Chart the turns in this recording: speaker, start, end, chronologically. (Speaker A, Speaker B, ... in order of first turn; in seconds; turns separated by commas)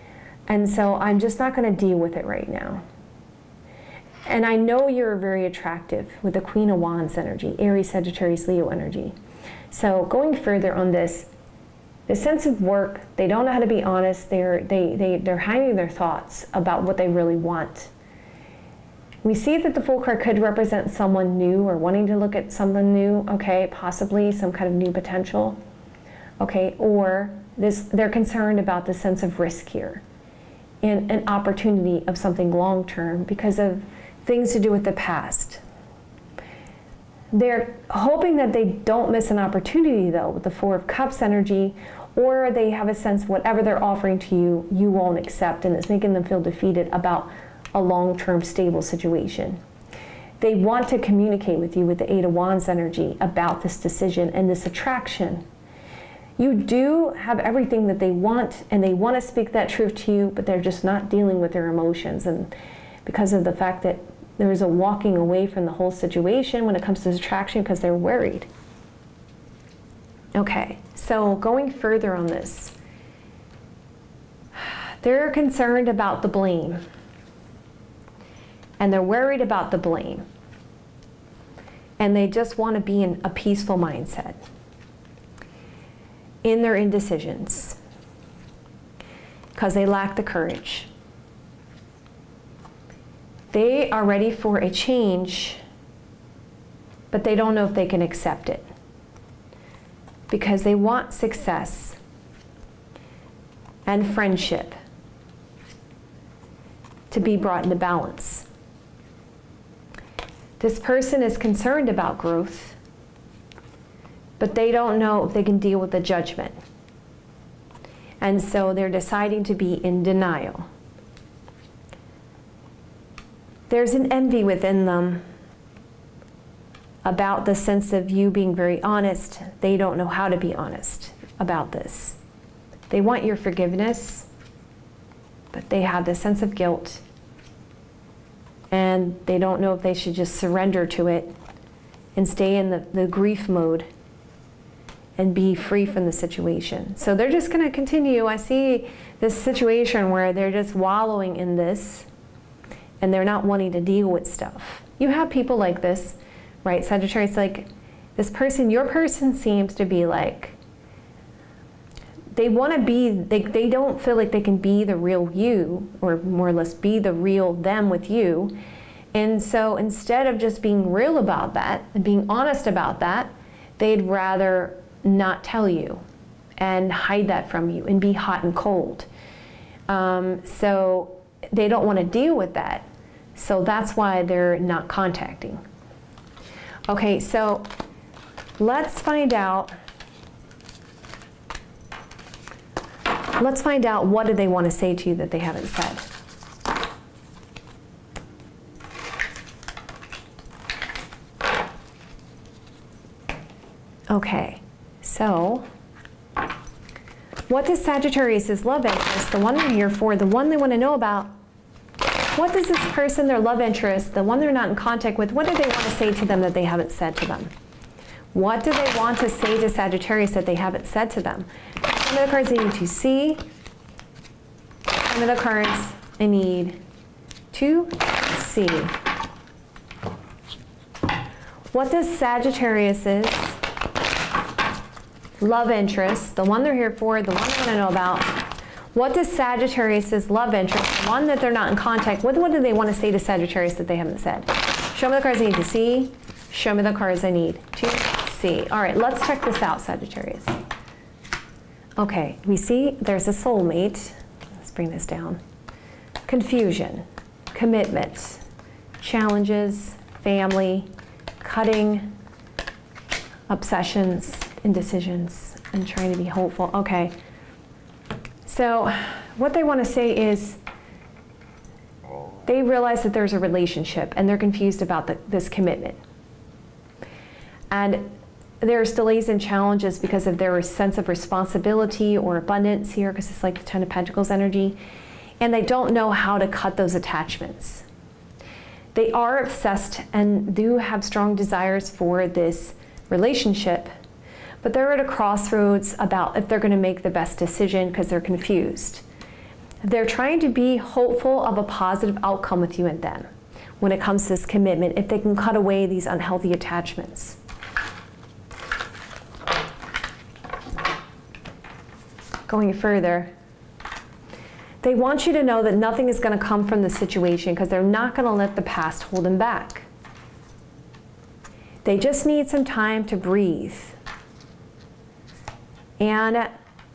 Speaker A: 0.5-2.8, Speaker A: 4.3-9.2, Speaker A: 9.7-11.3, Speaker A: 12.1-17.9, Speaker A: 19.2-25.6, Speaker A: 26.4-30.0, Speaker A: 30.8-35.6, Speaker A: 37.3-49.6, Speaker A: 50.4-55.4, Speaker A: 56.4-62.5, Speaker A: 63.0-68.5, Speaker A: 70.3-72.8, Speaker A: 74.6-76.8, Speaker A: 78.8-80.2, Speaker A: 82.0-84.4, Speaker A: 86.4-87.8, Speaker A: 89.6-90.9, Speaker A: 93.5-95.6, Speaker A: 97.1-98.7, Speaker A: 100.3-102.0, Speaker A: 103.9-104.8, Speaker A: 107.1-108.5, Speaker A: 110.6-112.8, Speaker A: 114.4-116.5, Speaker A: 118.2-120.7, Speaker A: 123.7-125.2, Speaker A: 127.0-132.2, Speaker A: 132.9-134.3, Speaker A: 135.5-137.0, Speaker A: 138.7-141.3, Speaker A: 142.2-143.9, Speaker A: 145.2-152.1, Speaker A: 153.0-160.6, Speaker A: 162.3-168.6, Speaker A: 169.1-176.0, Speaker A: 176.6-179.1, Speaker A: 179.9-185.6, Speaker A: 186.9-187.7, Speaker A: 188.6-189.7, Speaker A: 193.4-196.1, Speaker A: 204.1-205.7, Speaker A: 207.5-211.3, Speaker A: 212.3-217.5, Speaker A: 218.3-223.4, Speaker A: 225.0-226.8, Speaker A: 227.5-228.9, Speaker A: 231.7-233.6, Speaker A: 235.4-238.4, Speaker A: 238.9-250.5, Speaker A: 252.0-255.4, Speaker A: 256.3-258.4, Speaker A: 259.0-260.9, Speaker A: 261.4-262.1, Speaker A: 263.5-267.1, Speaker A: 268.5-270.6, Speaker A: 272.5-276.0, Speaker A: 277.7-284.8, Speaker A: 285.4-287.9, Speaker A: 288.9-293.9, Speaker A: 294.6-299.0, Speaker A: 299.8-303.3, Speaker A: 303.8-307.4, Speaker A: 312.5-313.3, Speaker A: 314.8-319.9, Speaker A: 321.9-324.0, Speaker A: 326.0-326.5